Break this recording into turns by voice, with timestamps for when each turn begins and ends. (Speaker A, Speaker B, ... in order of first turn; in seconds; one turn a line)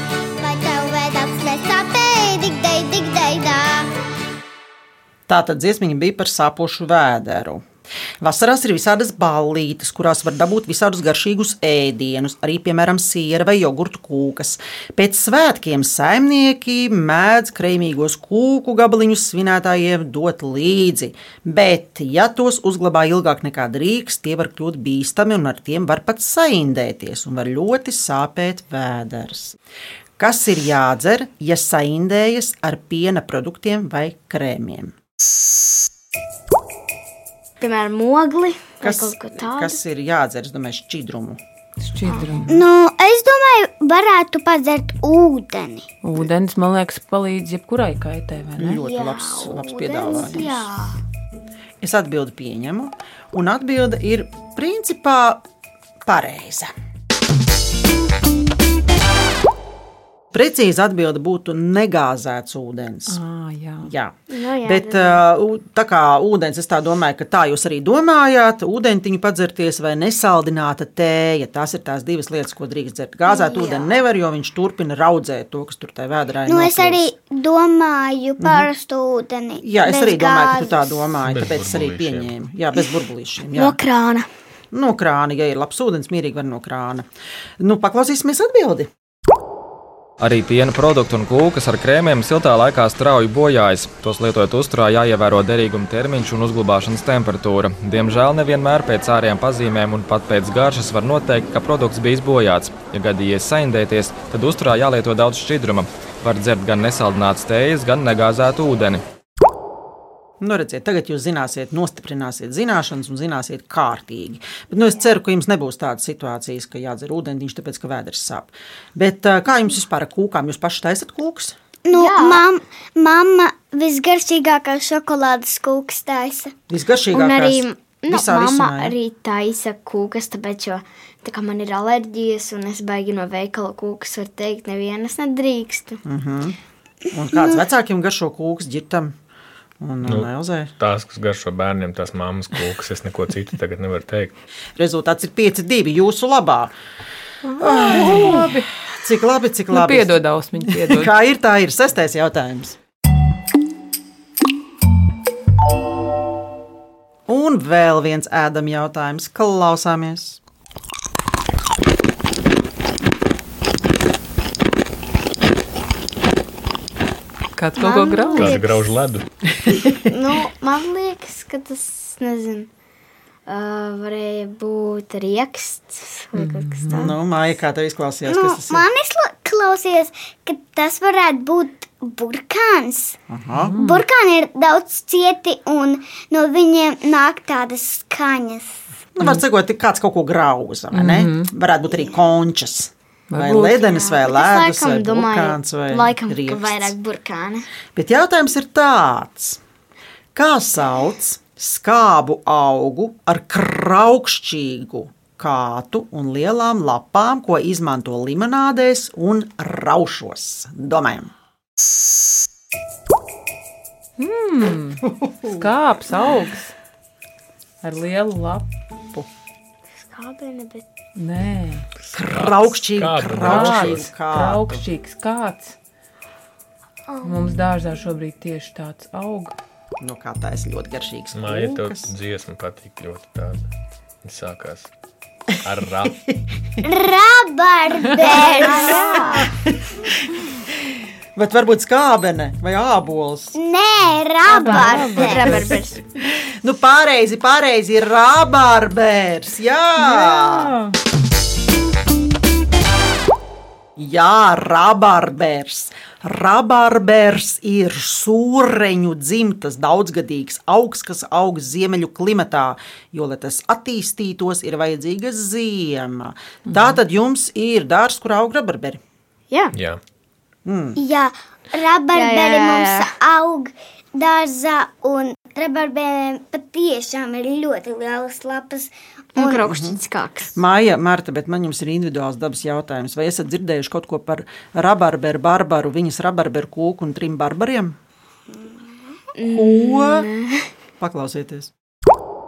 Speaker A: 0.4-3.9
Speaker B: 5.3-7.7
Speaker B: 8.2-29.6
Speaker B: 30.2-34.9
Speaker C: 37.6-39.8
Speaker B: 38.8-41.4
Speaker D: 41.8-42.5
Speaker C: 42.1-42.4
Speaker A: 42.5-45.9
Speaker D: 46.0-48.8
Speaker B: 48.6-50.7
Speaker C: 48.8-51.0
Speaker B: 51.8-55.4
Speaker B: 56.0-56.7
Speaker B: 60.3-63.2
Speaker D: 63.1-63.9
Speaker B: 63.8-77.1
Speaker C: 64.3-65.2
Speaker C: 73.3-73.9
Speaker A: 76.5-81.1
Speaker B: 78.4-78.7
Speaker B: 79.6-83.8
Speaker E: 81.2-82.3
Speaker C: 83.5-84.3
Speaker B: 84.7-87.1
Speaker B: 87.6-88.9
Speaker F: 90.2-109.0
Speaker B: 110.4-121.6
Speaker A: 121.9-126.5
Speaker C: 121.9-122.4
Speaker B: 126.7-128.9
Speaker C: 127.1-136.0
Speaker B: 136.1-136.6
Speaker B: 137.1-139.2
Speaker B: 139.8-140.7
Speaker E: 140.0-144.3
Speaker B: 144.8-146.7
Speaker D: 147.5-148.7
Speaker B: 147.6-152.8
Speaker D: 149.7-151.1
Speaker B: 157.3-160.4
Speaker D: 167.6-168.6
Speaker C: 167.8-168.9
Speaker E: 168.4-169.3
Speaker C: 170.1-172.7
Speaker C: 173.5-177.2
Speaker D: 176.3-177.1
Speaker B: 176.9-178.8
Speaker A: 178.3-183.2
Speaker B: 183.3-183.8
Speaker D: 183.5-184.0
Speaker A: 183.8-188.8
Speaker B: 189.2-196.9
Speaker D: 190.9-191.5
Speaker D: 193.3-194.0
Speaker C: 194.0-197.7
Speaker B: 197.9-199.6
Speaker B: 200.3-211.3
Speaker D: 214.2-216.7
Speaker B: 215.1-215.7
Speaker D: 217.8-218.7
Speaker C: 220.0-220.8
Speaker D: 221.2-221.9
Speaker E: 222.1-224.1
Speaker B: 222.1-224.8
Speaker D: 223.4-225.8
Speaker C: 227.1-227.5
Speaker D: 227.2-229.6
Speaker B: 230.0-232.1
Speaker E: 231.3-233.6
Speaker E: 234.2-234.9
Speaker E: 235.6-236.2
Speaker B: 236.1-236.3
Speaker A: 236.8-239.5
Speaker C: 238.2-239.5
Speaker B: 239.7-243.6
Speaker A: 243.6-245.7
Speaker C: 244.5-246.0
Speaker D: 244.5-245.7
Speaker B: 245.3-245.6
Speaker B: 246.2-250.8
Speaker D: 250.0-251.0
Speaker B: 254.0-269.0
Speaker E: 269.8-270.0
Speaker B: 270.6-271.0
Speaker A: 271.0-279.7
Speaker C: 272.1-273.1
Speaker C: 279.4-280.6
Speaker B: 279.6-280.0
Speaker B: 280.6-288.0
Speaker A: 288.5-289.2
Speaker C: 289.4-290.7
Speaker B: 289.5-290.3
Speaker B: 291.0-291.7